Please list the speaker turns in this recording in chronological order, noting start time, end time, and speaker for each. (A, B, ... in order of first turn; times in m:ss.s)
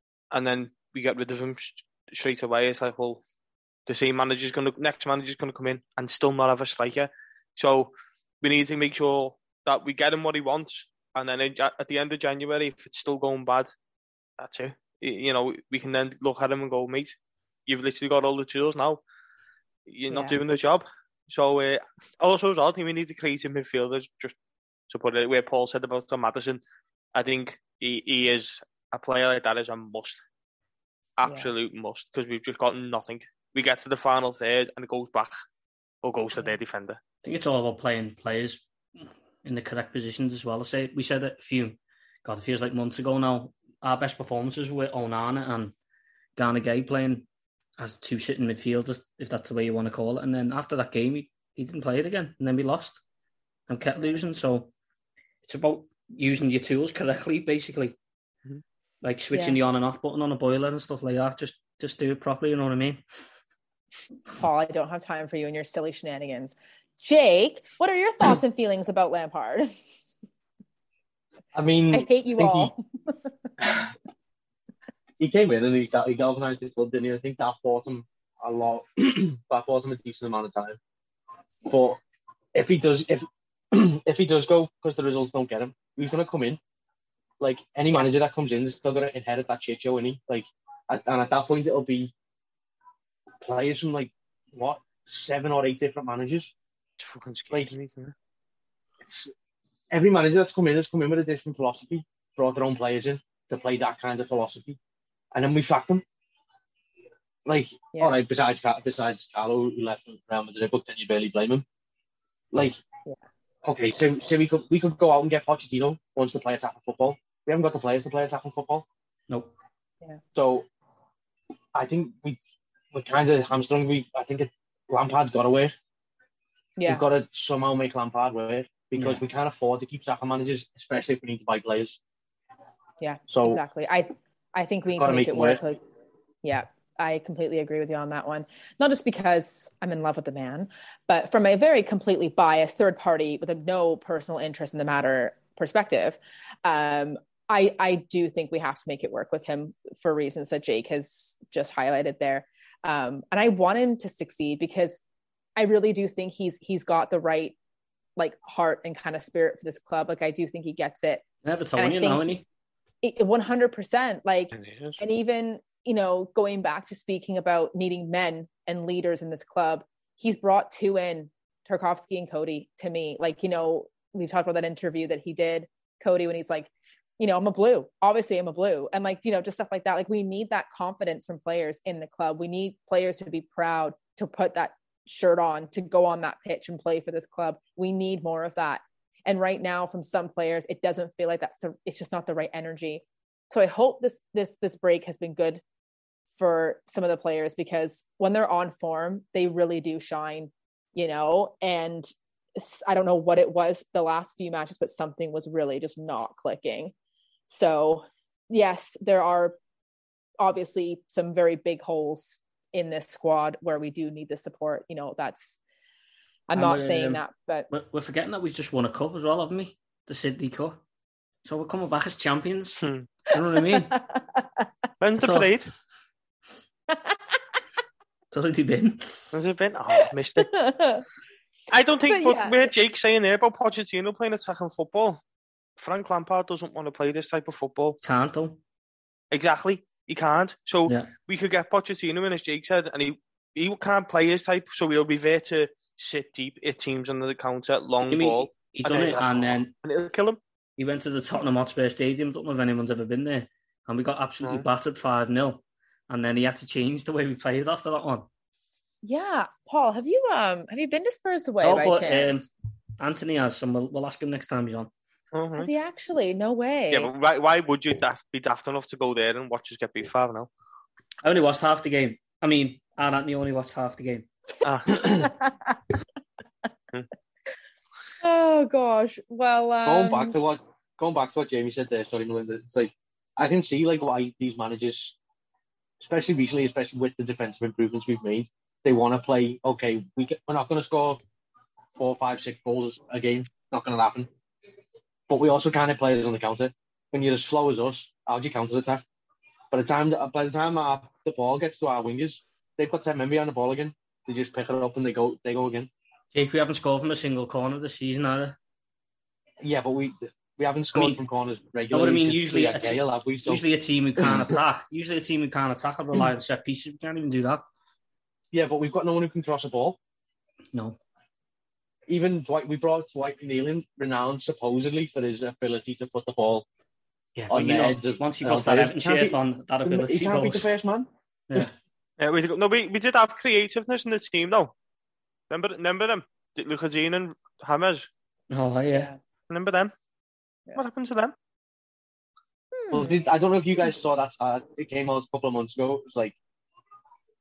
0:00.3-0:03.2 A
0:03.9-0:13.7 A
0:14.4-0:17.2 A
0:17.7-0:19.0 A
0:19.9-0:24.3 A
0:20.1-0:20.4 B
0:24.9-0:26.6 A
0:27.1-0:30.2 A
0:31.2-0:35.3 A
0:31.2-0:31.5 B
0:36.0-0:37.0 A
0:37.2-0:38.6 C
0:39.4-0:45.7 C
0:46.4-0:47.3 C
0:47.8-0:53.0 C
0:53.7-0:54.7 C
0:55.4-0:57.9 C
0:59.0-1:03.0 C
0:59.3-0:59.6 B
1:04.4-1:09.7 B
1:11.5-1:12.7 D
1:11.9-1:12.8 B
1:13.6-1:13.9 D
1:15.2-1:20.8 D
1:21.6-1:22.0 D
1:22.5-1:26.6 D
1:27.4-1:32.1 D
1:33.4-1:36.5 D
1:37.0-1:38.1 A
1:39.0-1:39.3 D
1:39.9-1:44.8 D
1:45.3-1:46.0 D
1:47.4-1:51.6 D
1:52.5-1:52.8 D
1:53.6-1:58.8 D
2:00.3-2:00.6 D
2:01.7-2:02.4 D
2:02.9-2:05.7 D
2:06.8-2:07.0 B
2:06.8-2:12.0 D
2:13.0-2:15.8 B
2:13.3-2:13.6 D
2:14.9-2:15.6 D
2:16.4-2:35.0 B
2:35.6-2:37.5 B
2:38.2-2:41.2 B
2:41.4-2:42.4 C
2:41.8-2:42.3 B
2:43.0-3:15.6 B
2:44.5-2:45.0 A
3:16.4-3:26.9 B
3:27.5-3:29.6 B
3:30.4-3:35.6 B
3:36.5-3:37.7 B
3:36.5-3:40.8 C
3:41.4-3:43.9 C
3:42.8-3:43.1 A
3:43.7-3:44.6 B
3:45.0-3:45.7 A
3:45.2-3:45.5 C
3:48.3-3:49.2 C
3:49.3-3:50.5 A
3:50.4-3:51.0 B
3:51.7-3:55.2 A
3:52.1-3:52.7 B
3:55.8-3:58.0 A
3:58.0-3:58.6 C
3:59.3-4:10.4 A
4:08.0-4:09.7 C
4:10.8-4:18.3 C
4:19.0-4:22.5 B
4:21.6-4:22.5 C
4:23.0-4:24.9 C
4:25.3-4:25.7 A
4:25.6-4:27.1 B
4:26.9-4:30.5 A
4:31.2-4:34.3 C
4:34.6-4:34.9 A
4:34.9-4:35.3 D
4:35.2-4:35.8 B
4:38.2-4:40.3 B
4:39.8-4:45.2 D
4:46.0-4:51.2 D
4:52.0-4:54.3 D
4:55.3-4:59.0 D
4:59.7-5:05.9 D
5:06.3-5:08.6 C
5:09.6-5:13.6 D
5:10.9-5:11.2 C
5:11.9-5:17.6 C
5:14.2-5:14.6 D
5:18.5-5:20.0 D
5:20.7-5:21.0 C
5:22.1-5:26.6 D
5:27.4-5:30.7 C
5:27.5-5:31.7 D
5:32.2-5:34.7 A
5:35.5-5:38.1 A
5:38.5-5:39.1 C
5:38.9-5:39.2 B
5:39.5-5:39.9 A
5:40.7-5:41.3 A
5:42.7-5:43.2 B
5:42.9-5:46.4 D